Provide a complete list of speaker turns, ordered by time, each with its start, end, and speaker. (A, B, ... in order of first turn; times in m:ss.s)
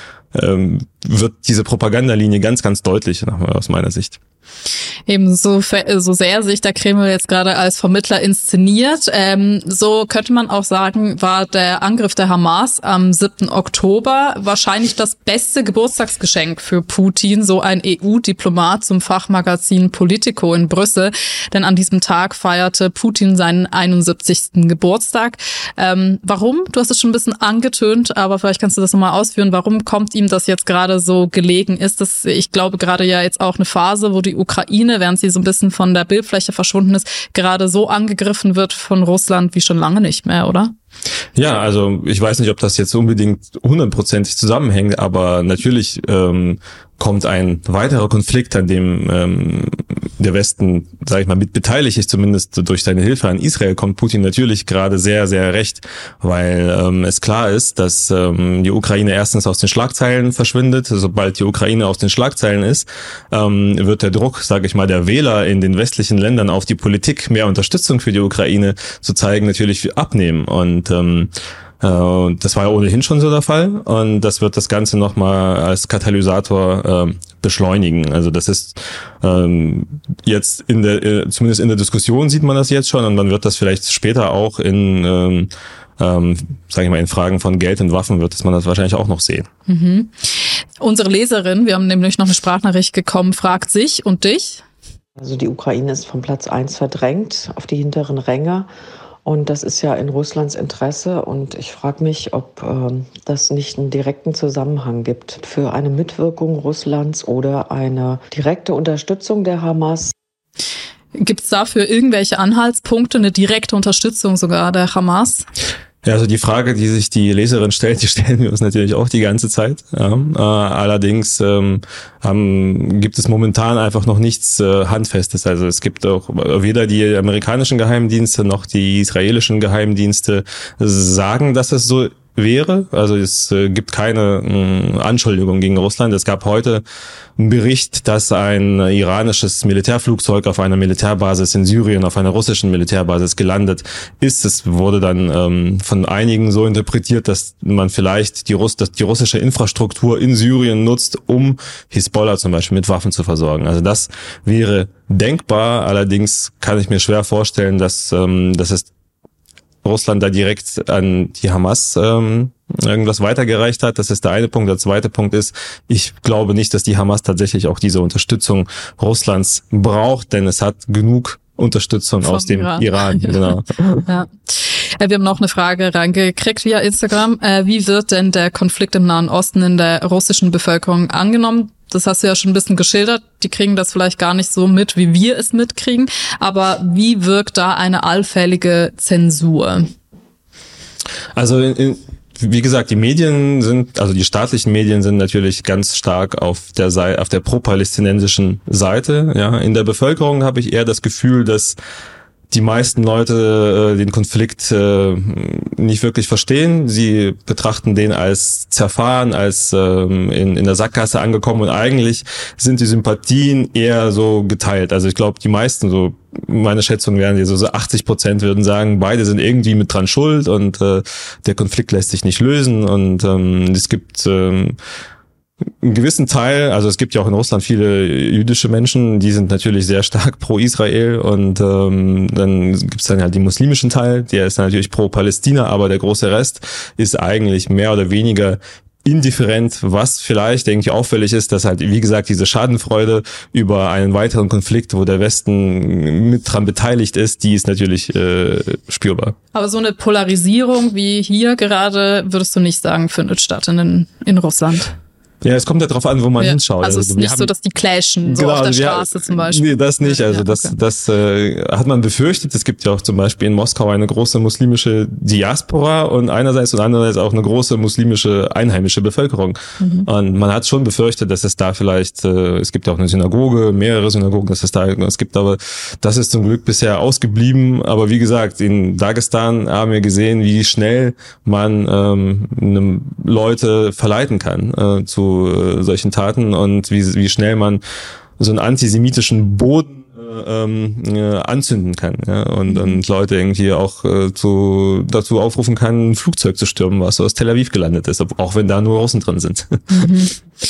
0:00.3-0:04.2 A
0:05.1-0:40.7 B
0:41.4-1:29.5 A
1:29.7-1:34.6 B
1:35.2-1:38.7 C
1:39.2-1:50.1 C
1:51.1-1:55.5 B
1:56.0-2:16.8 A
2:17.4-2:38.9 A
2:39.8-2:54.0 A
2:52.2-2:53.4 B
2:54.0-3:09.9 B
3:11.3-3:21.8 A
3:22.5-3:44.8 A
3:45.8-4:09.4 A
4:09.5-4:14.9 B
4:15.4-4:17.5 A
4:16.4-4:20.7 B
4:18.2-4:47.8 A
4:29.8-4:30.1 B
4:48.4-5:00.1 A
4:52.7-4:53.0 B
4:59.9-5:00.3 B